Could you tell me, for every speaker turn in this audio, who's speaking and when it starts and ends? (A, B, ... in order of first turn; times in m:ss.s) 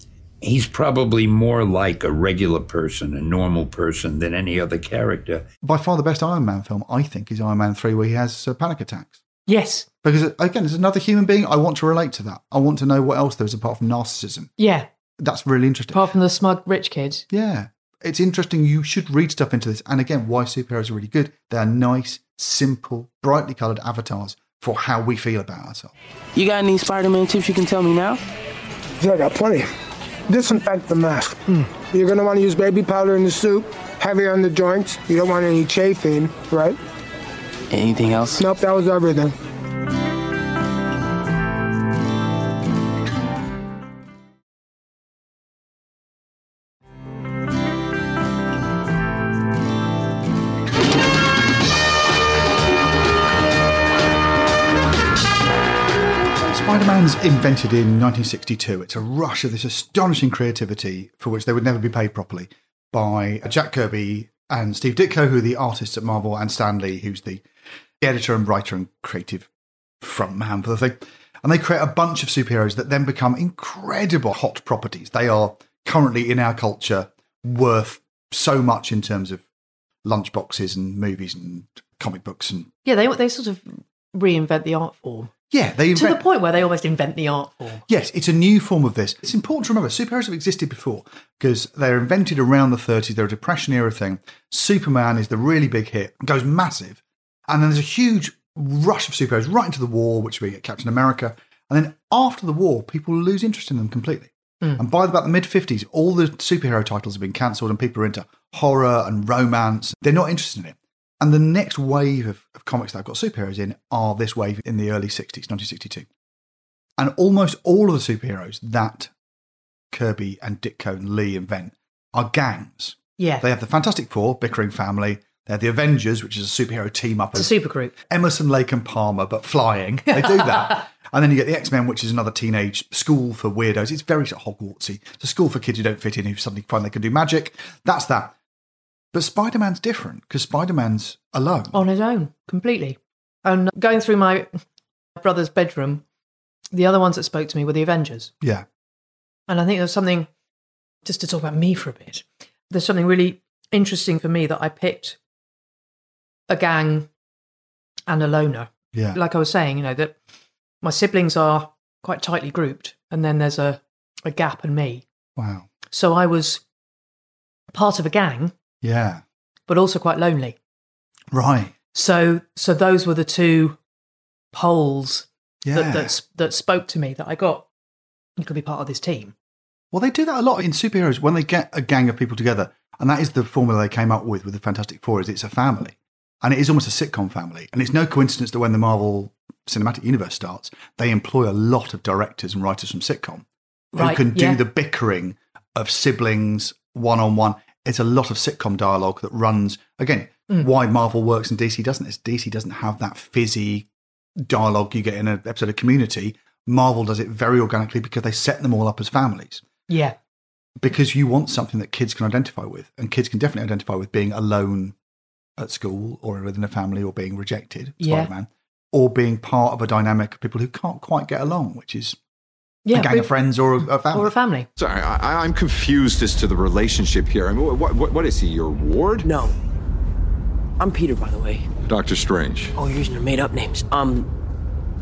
0:00.4-0:05.5 A
0:05.6-0:09.2 B
0:09.5-0:09.9 C
0:10.0-0:14.5 B
0:14.6-0:14.9 C
0:15.2-0:16.1 B
0:15.9-0:17.2 C
0:17.3-0:25.9 B
0:26.4-0:28.2 D
0:29.0-0:29.7 E
0:30.3-0:36.8 E
0:37.7-0:38.4 D
0:38.4-0:39.4 E
0:56.4-1:07.4 B
1:08.0-1:09.5 B
1:10.0-1:19.4 B
1:20.0-1:22.7 B
1:22.8-1:25.3 C
1:25.5-1:26.2 B
1:26.0-1:27.8 C
1:27.9-1:56.1 B
1:57.0-1:59.1 B
1:59.9-2:07.5 B
2:03.2-2:03.4 C
2:07.4-2:07.9 C
2:08.1-2:18.4 B
2:10.1-2:10.8 C
2:19.1-2:21.8 B
2:21.7-2:24.6 C
2:25.2-2:26.0 C
2:26.7-2:28.3 C
2:29.5-2:30.3 C
2:31.0-2:35.2 C
2:36.5-2:37.1 C
2:38.1-2:40.1 C
2:38.9-2:39.2 B
2:40.8-2:45.0 C
2:45.4-2:45.7 B
2:45.9-2:46.6 C
2:47.7-2:48.5 C
2:48.8-2:49.2 B
2:49.7-2:50.6 C
2:51.3-2:51.7 B
2:51.9-2:53.8 C
2:54.5-2:57.6 C
2:55.6-2:56.1 B
2:58.4-2:59.3 C
2:59.9-3:29.6 B
3:13.9-3:14.6 C
3:29.9-3:30.2 C
3:30.8-3:34.9 B
3:35.6-3:42.2 B
3:38.0-3:38.3 C
3:42.9-3:43.3 C
3:42.9-3:44.4 B
3:44.1-3:44.7 C
3:44.8-3:49.3 F
3:49.2-3:49.5 G
3:50.8-3:51.7 G
3:51.9-3:52.7 F
3:52.8-3:54.3 G